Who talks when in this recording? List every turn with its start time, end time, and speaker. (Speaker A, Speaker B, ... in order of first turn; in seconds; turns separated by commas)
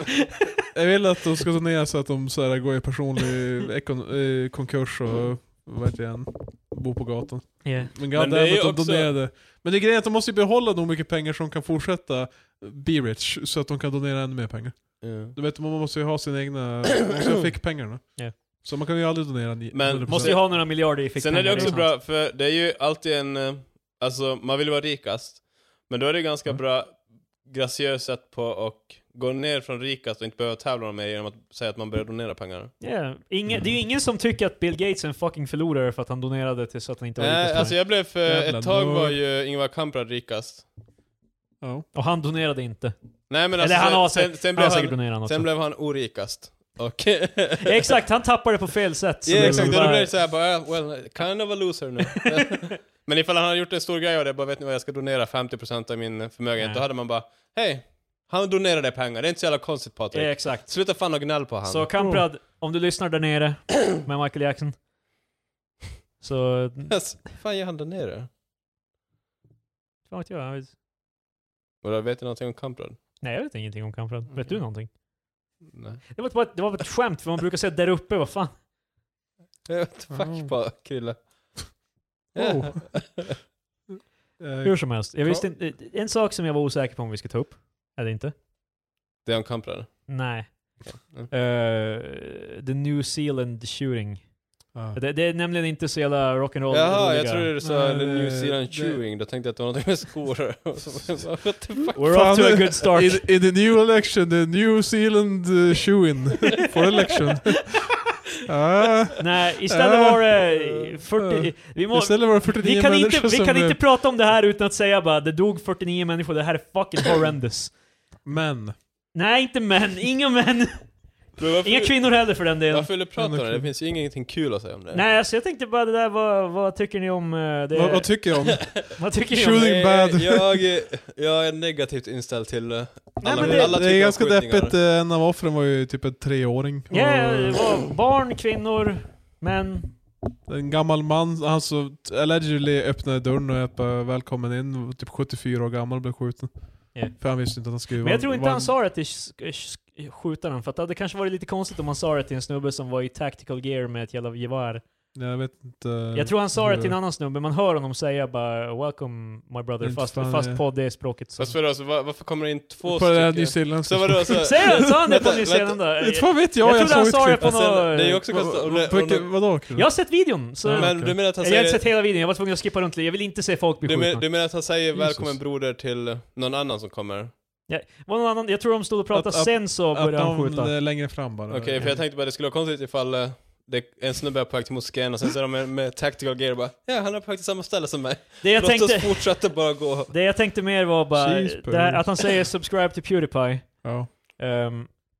Speaker A: 0.7-20.4, Speaker B: 7.6-7.9, Speaker C: 8.1-9.2, Speaker C: 15.0-15.3, Speaker C: 19.7-32.8, Speaker B: 20.1-21.9, Speaker A: 21.5-21.8, Speaker B: 32.8-37.7, Speaker C: 37.2-40.7, Speaker A: 38.2-39.2, Speaker A: 41.6-41.9, Speaker B: 41.9-42.9, Speaker C: 43.3-47.8, Speaker B: 43.5-45.5, Speaker B: 47.6-50.1, Speaker C: 49.2-61.9, Speaker A: 49.3-49.9, Speaker B: 56.6-56.9, Speaker B: 60.1-61.1, Speaker B: 61.6-64.8, Speaker A: 62.0-62.3, Speaker B: 66.2-67.0, Speaker C: 66.9-68.3, Speaker B: 70.1-70.7, Speaker C: 71.8-73.0, Speaker B: 73.2-74.9, Speaker C: 75.7-76.0, Speaker B: 76.1-78.6, Speaker C: 79.7-81.8, Speaker A: 80.1-80.5, Speaker A: 82.3-83.3, Speaker C: 82.3-83.3, Speaker A: 84.4-85.5, Speaker B: 84.6-88.3, Speaker C: 89.2-91.3, Speaker B: 90.1-97.5, Speaker A: 94.7-95.0, Speaker C: 96.7-102.4, Speaker A: 97.6-99.0, Speaker B: 101.9-103.3, Speaker A: 102.0-110.5, Speaker B: 109.2-117.7, Speaker A: 111.1-113.8, Speaker A: 118.2-118.7, Speaker B: 119.1-122.9, Speaker C: 121.4-125.1, Speaker A: 123.2-123.7, Speaker B: 124.9-129.7, Speaker A: 127.7-130.6, Speaker C: 128.5-128.8, Speaker C: 129.5-134.8, Speaker B: 133.2-133.8, Speaker A: 133.3-137.6, Speaker B: 136.9-139.9, Speaker A: 140.5-148.8, Speaker B: 146.9-154.8, Speaker A: 155.1-157.0, Speaker B: 156.1-161.5, Speaker A: 159.8-160.6, Speaker C: 161.4-165.8, Speaker A: 162.8-164.6, Speaker B: 164.4-168.2, Speaker A: 166.0-167.6, Speaker C: 167.4-169.5, Speaker A: 168.3-171.2, Speaker B: 169.7-174.2, Speaker C: 170.7-171.8, Speaker C: 173.8-177.3, Speaker A: 174.9-175.4, Speaker B: 177.7-180.7, Speaker A: 179.1-181.9, Speaker C: 181.5-190.1, Speaker B: 181.7-182.0, Speaker B: 188.4-195.0, Speaker A: 191.1-192.2, Speaker A: 193.8-194.1